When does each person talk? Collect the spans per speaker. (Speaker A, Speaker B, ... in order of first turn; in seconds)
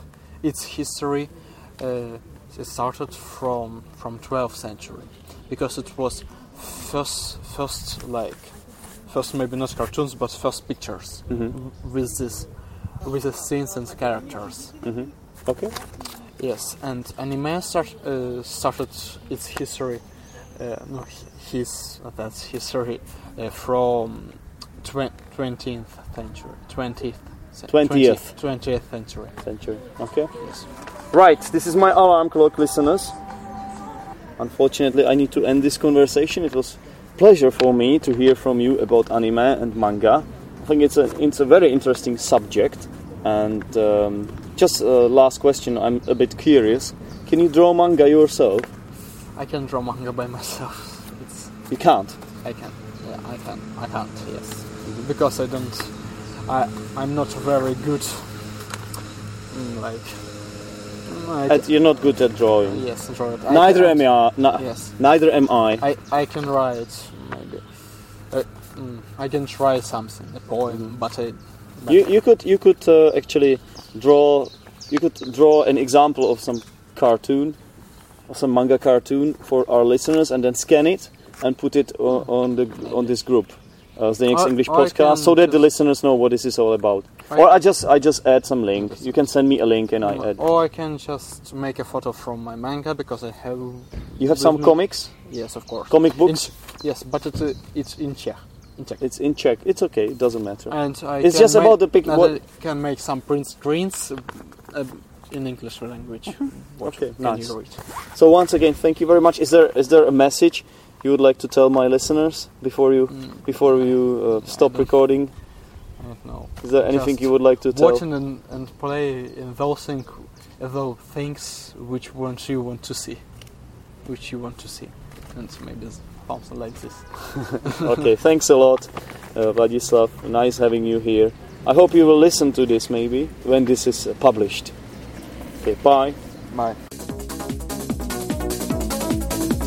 Speaker A: 0.4-8.6, 9.1-12.5, 13.0-14.7, 16.4-20.0, 20.6-29.4, 49.4-51.5, 52.4-58.5, 59.5-60.4, 61.1-61.7, 62.6-65.0, 65.8-67.7, 68.3-72.0, 82.9-83.1, 84.3-85.6, 90.0-99.0, 100.7-107.8, 113.1-113.5, 114.4-114.9, 116.0-123.2, 124.1-127.9, 136.5-136.8
Speaker B: 11.3-11.6, 14.8-15.8, 27.7-28.2, 29.4-30.3, 31.1-33.1, 34.4-48.7, 51.7-52.2, 61.5-62.8, 63.5-65.8, 71.9-77.6, 78.3-90.4, 94.2-95.1, 95.9-96.5, 99.0-102.4, 106.8-107.5, 108.1-115.3, 116.6-118.0, 127.7-134.7, 135.6-136.2